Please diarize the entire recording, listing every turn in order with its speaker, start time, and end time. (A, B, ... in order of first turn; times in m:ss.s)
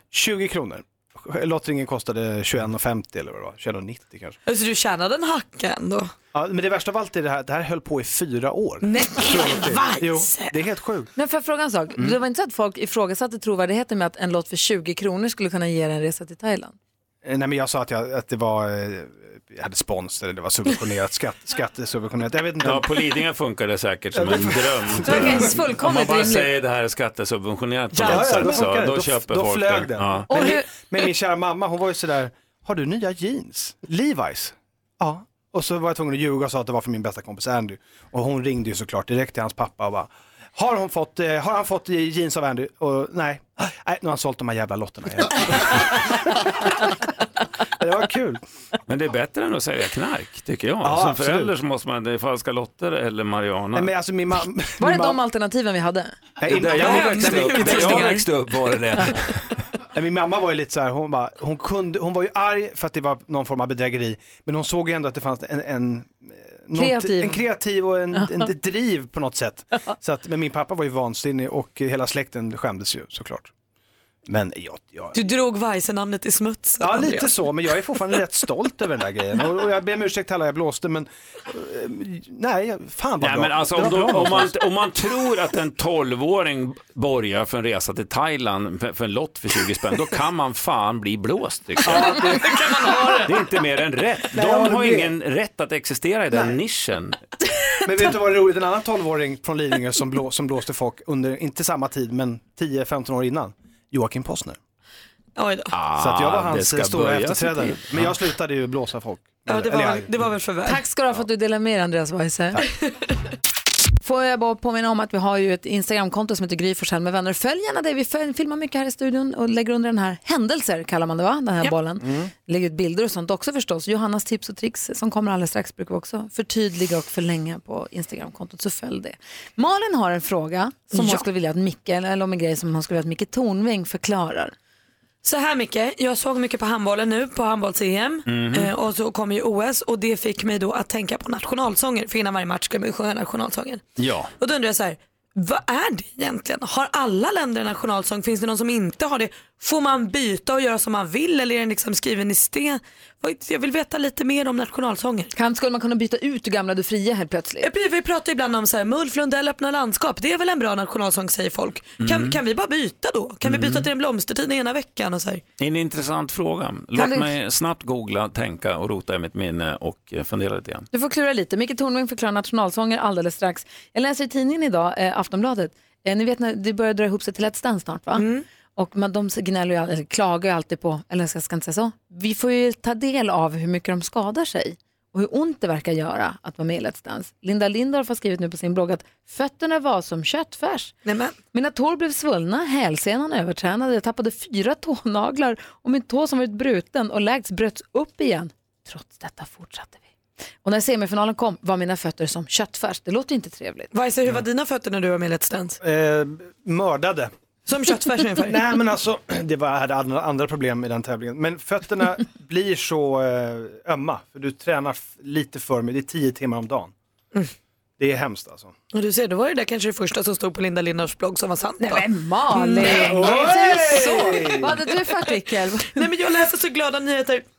0:00.1-0:04.4 A
0:04.5-0:06.1 B
0:06.3-0:11.1 A
0:08.8-0:10.5 B
0:11.2-0:16.7 C
0:17.2-0:22.8 A
0:22.6-0:30.3 D
0:24.1-0:25.7 A
0:25.0-0:26.5 C
0:27.9-0:46.9 A
0:30.3-0:30.7 C
0:47.8-0:48.4 A
0:48.9-0:53.9 D
0:50.8-0:51.5 A
0:53.7-0:55.2 A
0:54.8-0:56.1 C
0:56.4-0:58.2 A
0:56.4-0:59.3 D
0:56.7-0:58.2 B
0:59.9-1:13.5 A
1:06.7-1:07.4 C
1:14.3-1:15.2 A
1:15.1-1:17.3 B
1:16.8-1:24.5 A
1:23.2-1:32.2 D
1:31.8-1:33.2 A
1:32.1-1:33.3 B
1:33.2-1:37.2 D
1:34.3-1:35.1 A
1:37.8-1:44.6 A
1:45.4-1:45.7 B
1:45.7-1:48.1 D
1:46.0-1:50.2 A
1:49.5-1:50.8 B
1:50.6-1:52.6 C
1:54.0-2:14.5 C
2:02.0-2:02.3 A
2:10.9-2:11.2 B
2:15.2-2:23.8 B
2:18.3-2:18.7 D
2:24.0-2:24.3 D
2:24.4-2:35.3 B
2:35.3-2:37.7 C
2:37.6-2:45.4 B
2:42.0-2:42.4 D
2:43.4-2:43.9 D
2:45.6-2:50.9 D
2:50.9-2:58.2 C
2:58.2-2:58.4 B
2:58.8-3:10.9 C
3:11.0-3:11.4 B
3:11.5-3:20.0 C
3:20.6-3:23.9 C
3:23.9-3:25.8 B
3:25.8-3:27.3 A
3:27.7-3:28.6 B
3:28.4-3:36.9 A
3:38.0-3:38.7 A
3:38.9-3:44.6 B
3:41.8-3:46.1 C
3:42.9-3:44.7 A
3:45.9-3:47.4 B